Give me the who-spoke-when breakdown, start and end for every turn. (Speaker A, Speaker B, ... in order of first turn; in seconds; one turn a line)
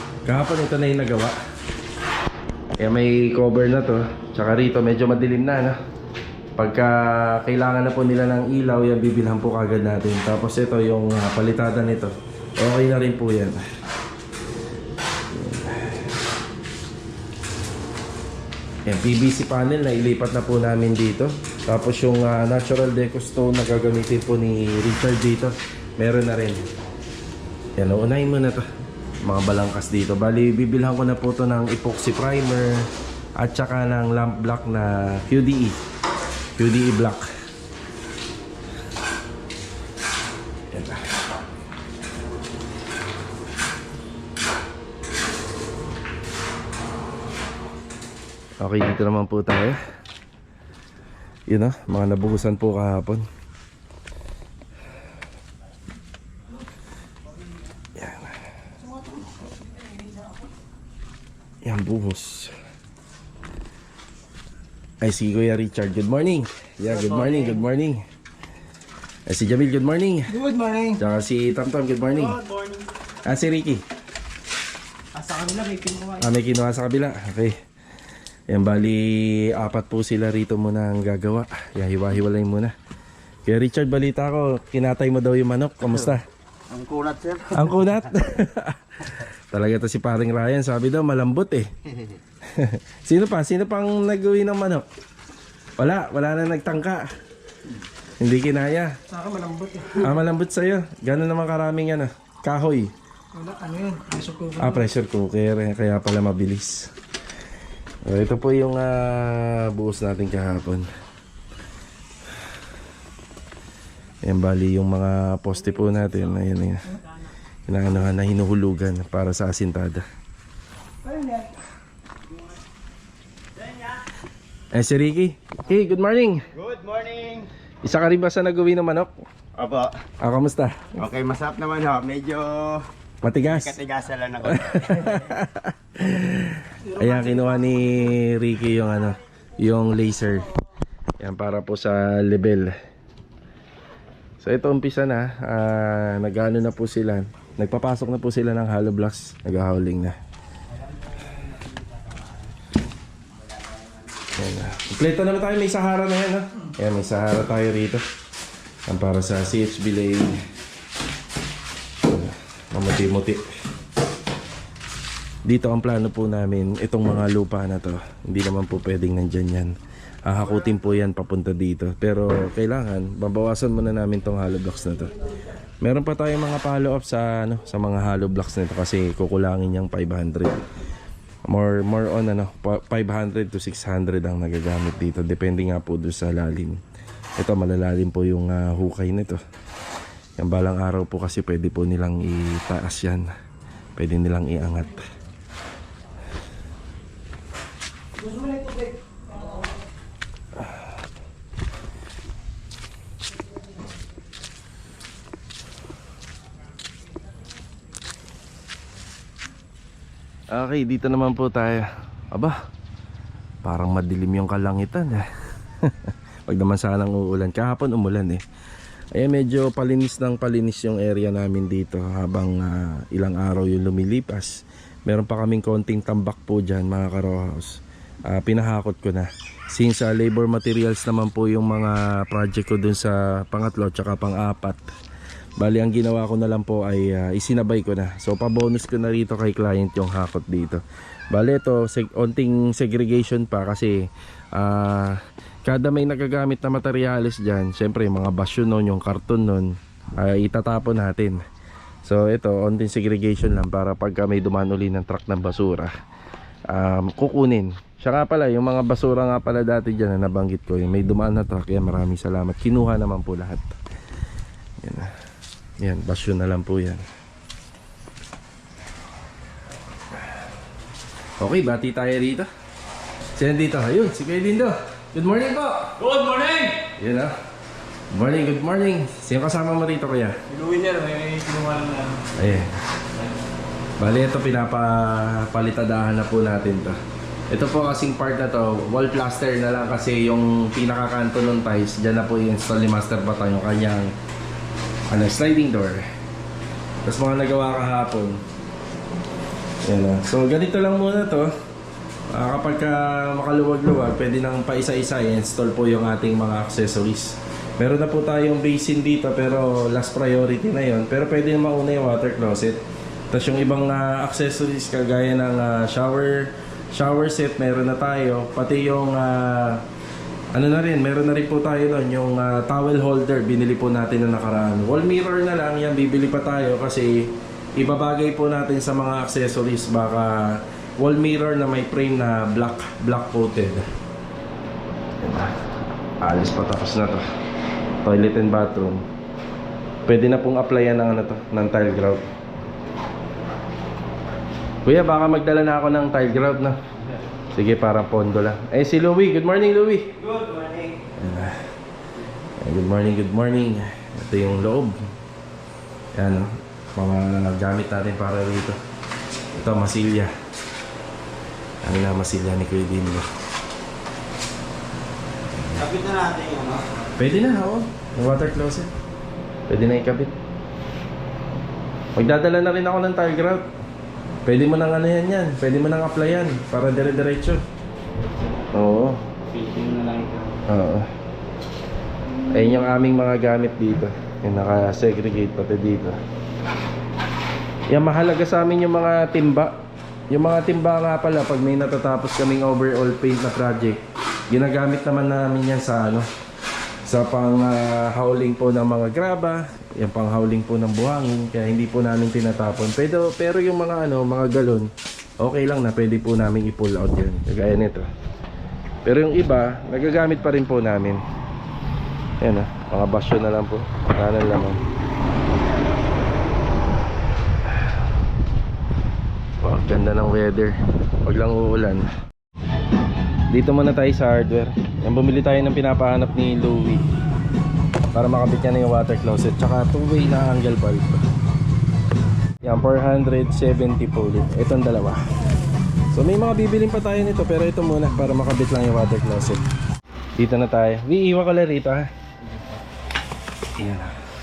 Speaker A: 0.3-1.4
Speaker A: 2.8-5.8
Speaker A: 6.6-13.6
Speaker A: 15.3-16.1
Speaker A: 18.9-26.6
Speaker A: 27.8-28.6
Speaker A: 29.2-32.9
Speaker A: 33.4-35.8
Speaker A: 36.6-37.2
Speaker A: 40.7-41.0
Speaker A: 48.6-49.8
Speaker A: 51.5-53.2
Speaker A: 58.0-58.4
Speaker A: 61.6-62.5
Speaker A: 65.0-68.0
Speaker A: 69.3-72.4
Speaker B: 70.4-71.0
Speaker C: 72.4-72.8
Speaker A: 73.2-73.8
Speaker B: 75.2-76.1
Speaker A: 76.2-77.6
Speaker A: 78.5-82.7
Speaker A: 83.5-86.2
Speaker C: 86.7-88.2
Speaker A: 87.5-91.7
Speaker A: 92.5-94.9
Speaker A: 95.8-97.1
Speaker A: 98.2-99.0
Speaker B: 99.1-100.0
Speaker A: 99.9-102.9
Speaker B: 103.4-104.6
Speaker A: 104.5-106.9
Speaker A: 108.1-110.9
Speaker A: 114.2-117.0
Speaker A: 117.7-120.0
Speaker C: 121.1-121.5
Speaker C: 123.6-124.1
Speaker A: 124.7-126.5
Speaker C: 126.5-127.5
Speaker A: 127.8-129.1
Speaker C: 129.6-129.9
Speaker A: 130.2-131.0
Speaker C: 131.0-132.9
Speaker A: 133.2-133.8
Speaker C: 133.4-135.5
Speaker A: 134.4-140.5
Speaker A: 141.2-142.8
Speaker A: 144.4-150.2
Speaker C: 150.7-152.5
Speaker C: 153.3-154.5
Speaker A: 154.4-158.0
Speaker A: 158.9-160.5
Speaker A: 162.0-163.5
Speaker A: 165.5-175.2
Speaker A: 175.8-180.6
Speaker A: 181.5-186.8
Speaker A: 187.4-189.4
Speaker A: 190.4-193.3
Speaker A: 194.0-195.1
Speaker A: 210.5-212.6
Speaker A: 213.6-218.4
Speaker A: 219.1-234.8
Speaker A: 235.6-251.4
Speaker A: 252.1-255.9
Speaker A: 256.7-263.7
Speaker A: 264.8-265.1
Speaker A: 265.8-267.0
Speaker A: 271.4-272.5
Speaker A: 273.4-277.4
Speaker A: 278.1-280.4
Speaker C: 280.5-281.9
Speaker B: 280.9-282.0
Speaker A: 282.3-282.7
Speaker A: 284.0-287.0
Speaker A: 287.5-294.1
Speaker A: 295.1-296.1
Speaker A: 297.1-298.4
Speaker A: 299.9-301.5
Speaker A: 302.3-312.8
Speaker A: 313.3-319.8
Speaker A: 320.5-333.9
Speaker A: 335.2-335.5
Speaker A: 336.2-337.2
Speaker A: 338.0-339.1
Speaker A: 340.1-342.2
Speaker A: 344.9-346.8
Speaker A: 347.5-350.2
Speaker A: 351.1-351.6
Speaker A: 352.6-355.0
Speaker A: 356.1-358.8
Speaker A: 359.5-360.3
Speaker A: 361.8-363.3
Speaker C: 365.8-366.9
Speaker A: 367.2-368.9
Speaker A: 369.7-370.4
Speaker A: 372.2-373.6
Speaker A: 374.4-377.6
Speaker A: 378.7-379.2
Speaker C: 379.5-380.5
Speaker A: 380.7-381.1
Speaker A: 382.5-386.2
Speaker A: 387.9-396.3
Speaker A: 397.1-408.1
Speaker A: 409.1-411.2
Speaker A: 412.4-414.8
Speaker A: 419.6-422.1
Speaker A: 423.5-427.0
Speaker A: 428.1-431.2
Speaker A: 432.6-435.2
Speaker A: 436.1-439.6
Speaker A: 440.4-442.1
Speaker A: 443.8-444.1